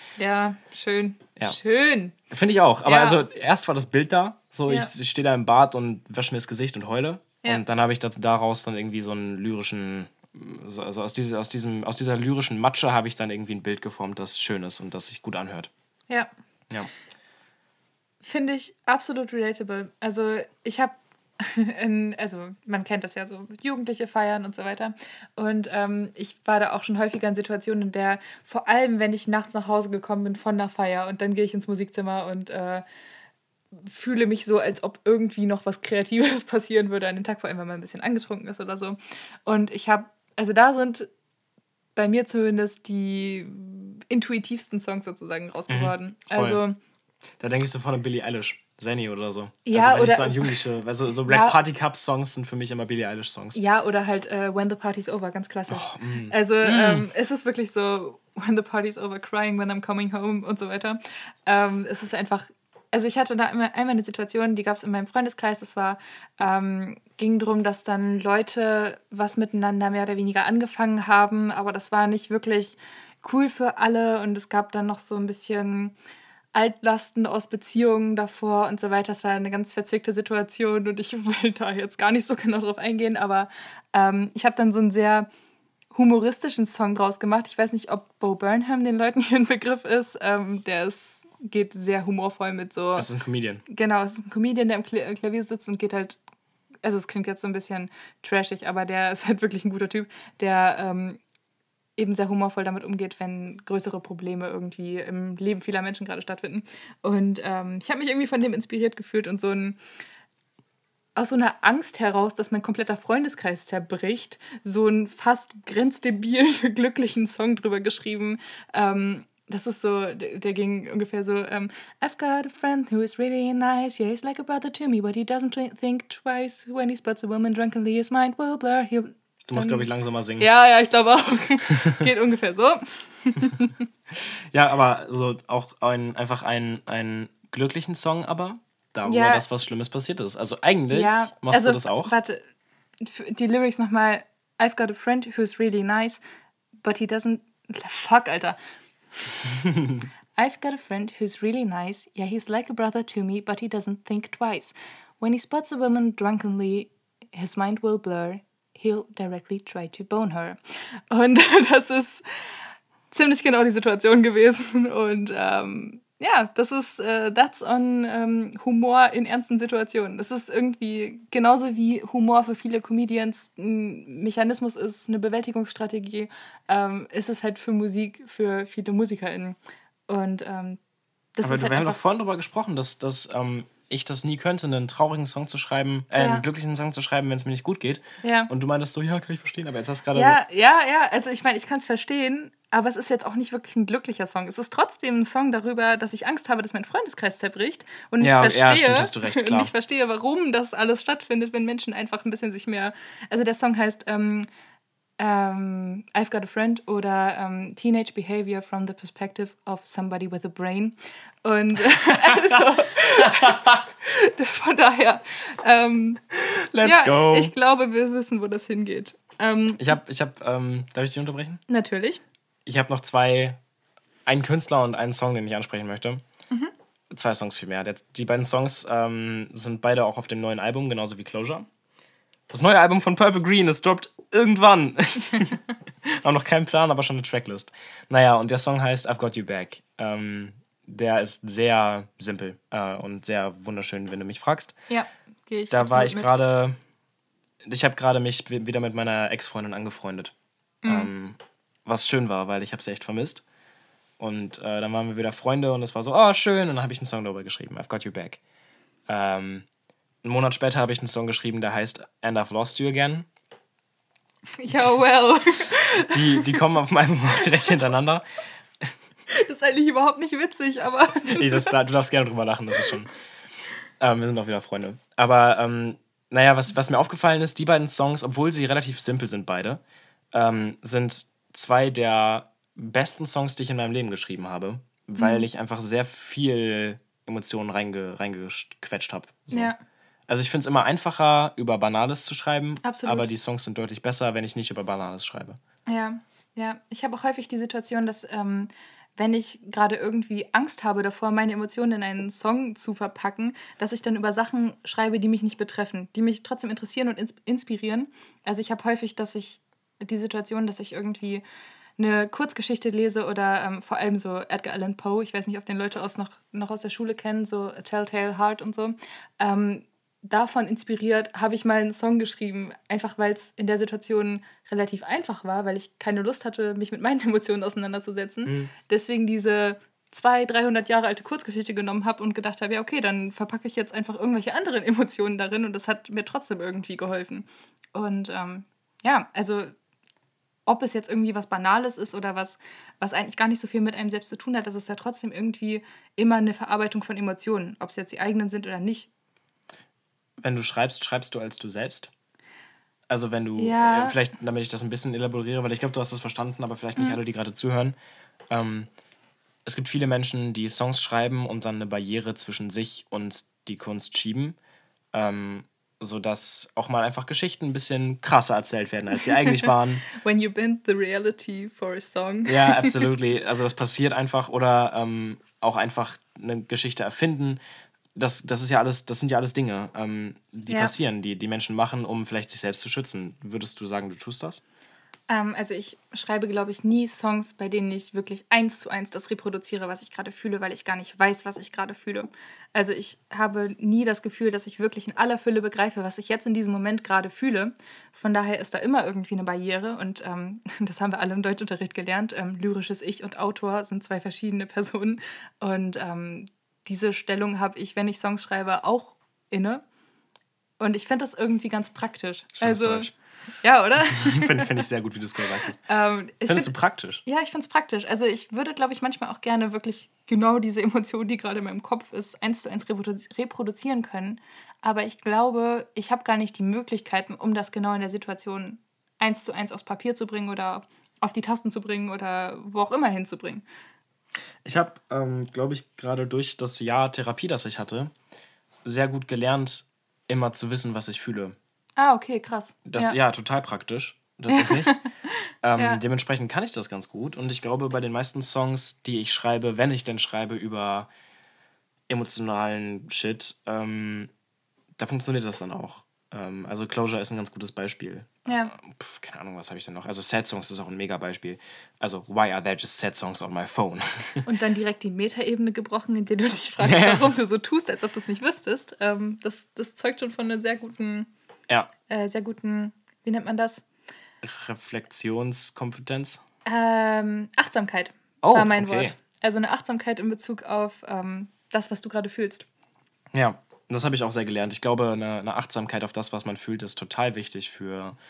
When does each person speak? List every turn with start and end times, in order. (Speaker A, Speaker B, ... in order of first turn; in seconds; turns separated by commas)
Speaker A: 0.2-2.1, Speaker B: 2.3-15.7, Speaker A: 2.9-3.2, Speaker A: 18.2-32.8, Speaker A: 33.7-41.1, Speaker A: 42.0-46.8, Speaker B: 45.7-46.6, Speaker B: 47.4-53.6, Speaker A: 49.7-50.6, Speaker A: 51.3-51.6, Speaker A: 53.5-76.0, Speaker B: 55.7-57.1, Speaker A: 76.5-85.3, Speaker A: 85.9-93.1, Speaker B: 93.0-93.6, Speaker A: 93.7-96.2, Speaker A: 96.8-101.2, Speaker A: 102.0-109.8, Speaker A: 111.2-129.9, Speaker B: 129.5-130.5, Speaker A: 130.4-133.8, Speaker B: 134.2-142.1, Speaker A: 139.1-139.4, Speaker A: 140.9-142.4, Speaker A: 143.0-146.2, Speaker A: 146.8-148.6, Speaker A: 150.4-162.2, Speaker A: 163.1-179.6, Speaker A: 180.1-180.8, Speaker A: 181.4-182.0, Speaker B: 181.4-190.4, Speaker A: 186.2-186.5, Speaker A: 188.2-188.5, Speaker A: 190.2-204.5, Speaker B: 198.2-199.7, Speaker A: 205.2-216.2, Speaker B: 212.3-212.6, Speaker B: 213.4-213.8, Speaker B: 216.3-217.5, Speaker A: 216.8-219.9, Speaker B: 219.8-221.6, Speaker A: 221.7-222.2, Speaker B: 222.7-223.6, Speaker B: 224.3-226.2, Speaker B: 227.1-231.7, Speaker B: 232.5-244.8, Speaker A: 244.9-246.3, Speaker B: 245.7-246.8, Speaker B: 247.6-250.3, Speaker A: 250.8-251.1, Speaker B: 250.9-253.4, Speaker B: 254.2-258.4, Speaker B: 259.1-259.6, Speaker B: 260.2-263.3, Speaker A: 264.6-266.6, Speaker B: 266.1-268.2, Speaker A: 269.3-271.7, Speaker B: 271.3-273.1, Speaker B: 274.0-279.8, Speaker B: 280.3-289.7, Speaker A: 285.2-285.5, Speaker A: 289.5-289.8, Speaker B: 290.3-295.6, Speaker A: 292.8-293.3, Speaker A: 295.9-311.4, Speaker A: 312.0-339.7, Speaker B: 328.5-328.7, Speaker A: 340.7-349.1, Speaker B: 350.4-352.1, Speaker B: 353.1-358.0, Speaker A: 353.6-354.2, Speaker B: 358.5-358.9, Speaker B: 359.6-364.6, Speaker B: 365.1-370.1, Speaker A: 369.6-373.0, Speaker B: 372.5-377.6, Speaker B: 378.1-384.6, Speaker A: 380.7-380.9, Speaker A: 385.3-409.8, Speaker A: 410.8-413.1, Speaker B: 412.6-413.1, Speaker A: 413.6-414.7, Speaker B: 414.0-415.8, Speaker A: 415.9-416.7, Speaker B: 416.5-417.2, Speaker A: 417.3-433.6, Speaker B: 434.6-438.1, Speaker B: 438.9-441.6, Speaker A: 442.0-443.2, Speaker B: 442.9-445.0, Speaker A: 444.5-445.1, Speaker B: 445.6-451.1, Speaker A: 445.8-446.0, Speaker B: 452.1-454.3, Speaker B: 455.0-464.5, Speaker A: 458.5-458.7, Speaker A: 464.5-471.3, Speaker B: 466.8-467.3, Speaker A: 472.1-473.8, Speaker B: 474.4-476.4, Speaker A: 476.7-482.7, Speaker B: 478.4-479.1, Speaker B: 483.3-488.2